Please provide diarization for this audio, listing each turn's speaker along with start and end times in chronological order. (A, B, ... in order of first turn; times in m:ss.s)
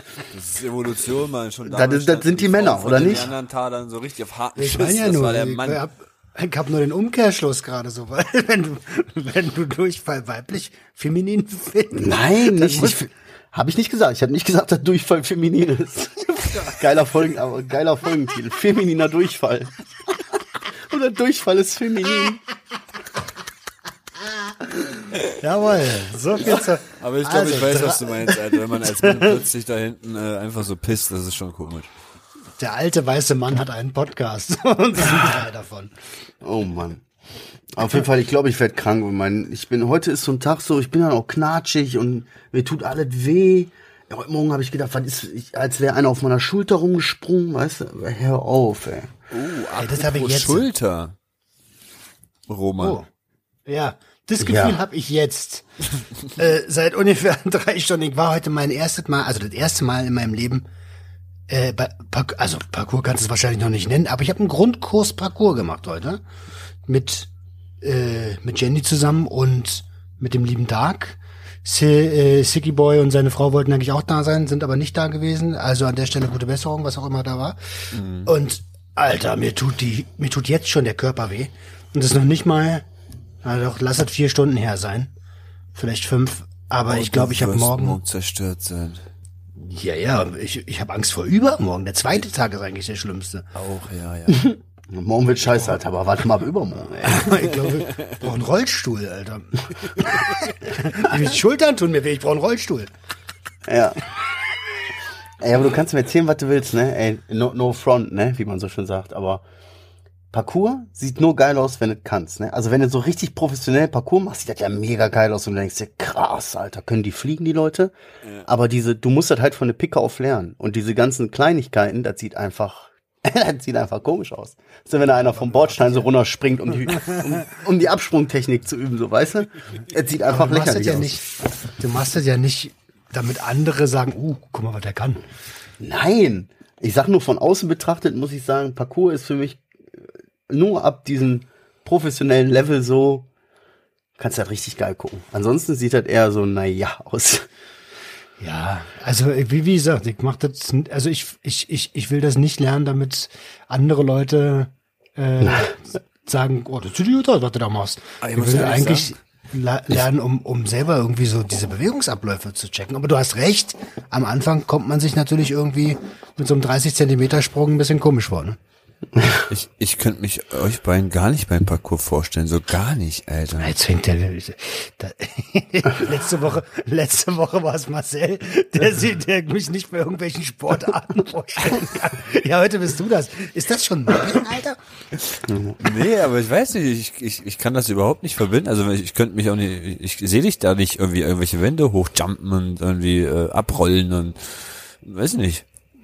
0:00.2-0:05.8 A
0:01.6-0:03.3 B
0:04.6-0:13.0 C
0:11.9-0:19.7 B
0:20.9-0:22.4 B
0:25.2-0:29.3 C
0:27.0-0:31.9 A
0:32.6-0:35.9 C
0:36.4-0:37.0 B
0:37.7-0:49.1 B
0:49.3-0:51.2 A
0:49.8-0:50.6 C
0:52.5-0:53.0 A
0:52.8-0:53.1 C
0:53.7-0:55.6 C
0:54.4-0:54.8 B
0:56.4-1:00.6 C
1:01.5-1:06.2 C
1:06.8-1:07.3 C
1:07.8-1:22.8 C
1:17.9-1:18.3 A
1:23.4-1:25.1 C
1:25.7-1:28.0 C
1:26.9-1:29.1 A
1:29.7-1:33.4 C
1:33.5-1:34.5 A
1:34.3-1:37.4 B
1:37.0-1:42.9 C
1:43.6-1:44.0 B
1:45.4-1:49.4 B
1:50.3-1:57.9 B
1:58.4-2:11.2 B
2:10.3-2:11.2 C
2:11.8-2:15.2 C
2:15.8-2:23.3 B
2:24.2-2:27.5 B
2:28.4-2:48.6 C
2:38.2-2:39.1 A
2:49.2-2:49.4 B
2:49.5-2:53.7 A
2:53.6-3:04.8 C
3:05.4-3:05.8 B
3:05.8-3:15.6 A